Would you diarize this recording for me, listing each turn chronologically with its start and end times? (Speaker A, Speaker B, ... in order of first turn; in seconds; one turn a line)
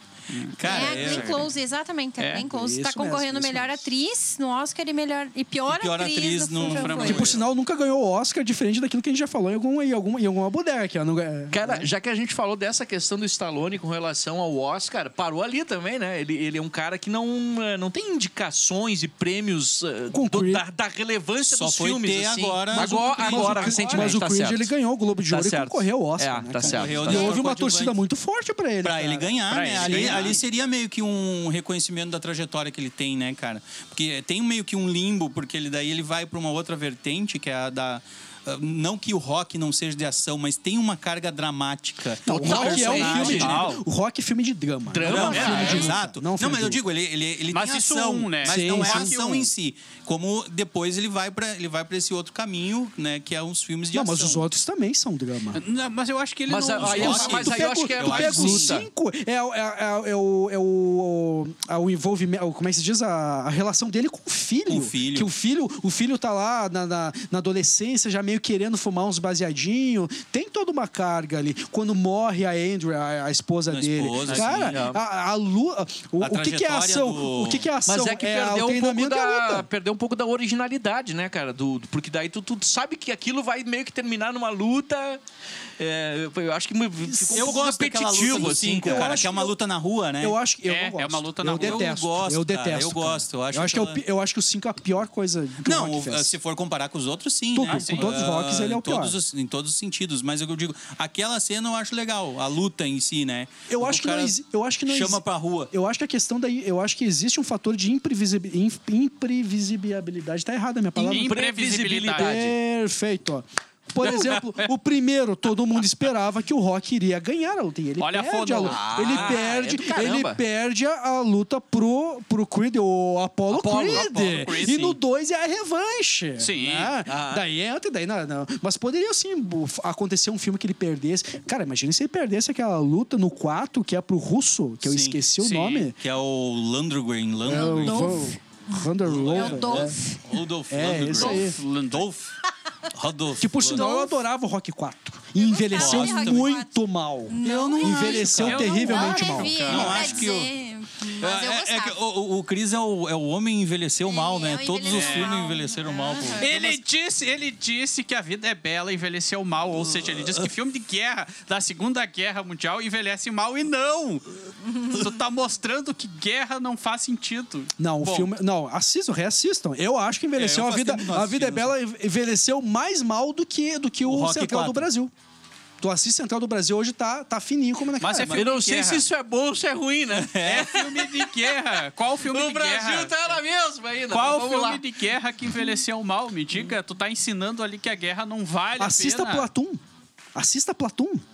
Speaker A: 0.3-1.5
Speaker B: 0.6-1.5
Speaker C: 0.6-7.3
Speaker A: 2.2-2.4
Speaker D: 2.4-3.9
Speaker B: 5.7-7.4
Speaker A: 6.6-7.4
Speaker D: 7.0-11.9
Speaker E: 11.5-24.7
Speaker D: 20.1-20.6
Speaker B: 21.5-24.2
Speaker D: 22.7-30.4
Speaker E: 25.3-27.4
Speaker B: 26.6-28.0
Speaker C: 27.1-27.4
Speaker B: 28.8-43.6
Speaker A: 29.5-30.4
Speaker E: 29.5-30.4
Speaker E: 42.3-43.6
Speaker D: 42.3-46.8
Speaker A: 43.2-43.8
Speaker E: 44.9-46.0
Speaker B: 45.0-54.5
Speaker A: 45.3-45.8
Speaker A: 47.5-49.5
Speaker D: 48.5-49.1
Speaker D: 53.9-55.6
Speaker A: 55.5-57.5
Speaker E: 56.5-58.9
Speaker B: 56.8-58.8
Speaker D: 56.9-79.7
Speaker B: 64.7-65.3
Speaker B: 73.7-74.8
Speaker A: 74.3-74.5
Speaker E: 74.6-75.0
Speaker B: 76.2-77.7
Speaker E: 77.9-85.2
Speaker E: 85.8-89.3
Speaker D: 87.0-87.6
Speaker B: 87.3-90.4
Speaker D: 88.4-89.5
Speaker D: 90.2-96.3
Speaker A: 90.7-92.0
Speaker B: 91.5-94.0
Speaker B: 95.6-104.3
Speaker D: 97.5-99.2
Speaker A: 97.7-98.2
Speaker D: 103.7-111.4
Speaker B: 104.9-105.7
Speaker A: 111.0-112.4
Speaker E: 111.1-112.5
Speaker D: 112.1-136.0
Speaker A: 114.0-114.7
Speaker A: 118.0-119.4
Speaker E: 118.6-120.4
Speaker E: 123.5-124.3
Speaker A: 123.8-125.0
Speaker A: 126.4-127.0
Speaker E: 127.1-127.4
Speaker B: 134.8-135.2
Speaker A: 135.4-135.9
Speaker B: 136.0-138.2
Speaker D: 137.4-140.0
Speaker C: 137.5-140.2
Speaker B: 139.1-142.3
Speaker D: 140.7-141.6
Speaker A: 141.1-142.1
Speaker B: 142.9-143.9
Speaker D: 143.4-149.8
Speaker C: 143.7-144.2
Speaker C: 145.4-146.8
Speaker B: 145.7-146.6
Speaker C: 147.3-152.0
Speaker B: 147.4-148.7
Speaker A: 148.4-150.3
Speaker B: 149.7-150.5
Speaker B: 151.2-156.8
Speaker C: 154.0-156.6
Speaker A: 154.9-155.4
Speaker A: 156.4-164.3
Speaker B: 159.8-160.5
Speaker C: 164.7-164.9
Speaker A: 164.8-168.3
Speaker D: 167.8-175.1
Speaker B: 170.4-171.7
Speaker B: 174.1-174.9
Speaker D: 175.8-178.4
Speaker A: 178.0-179.1
Speaker E: 178.3-181.2
Speaker B: 180.1-180.8
Speaker A: 180.4-183.3
Speaker E: 182.3-184.8
Speaker A: 184.1-189.5
Speaker D: 188.8-189.8
Speaker D: 190.3-191.2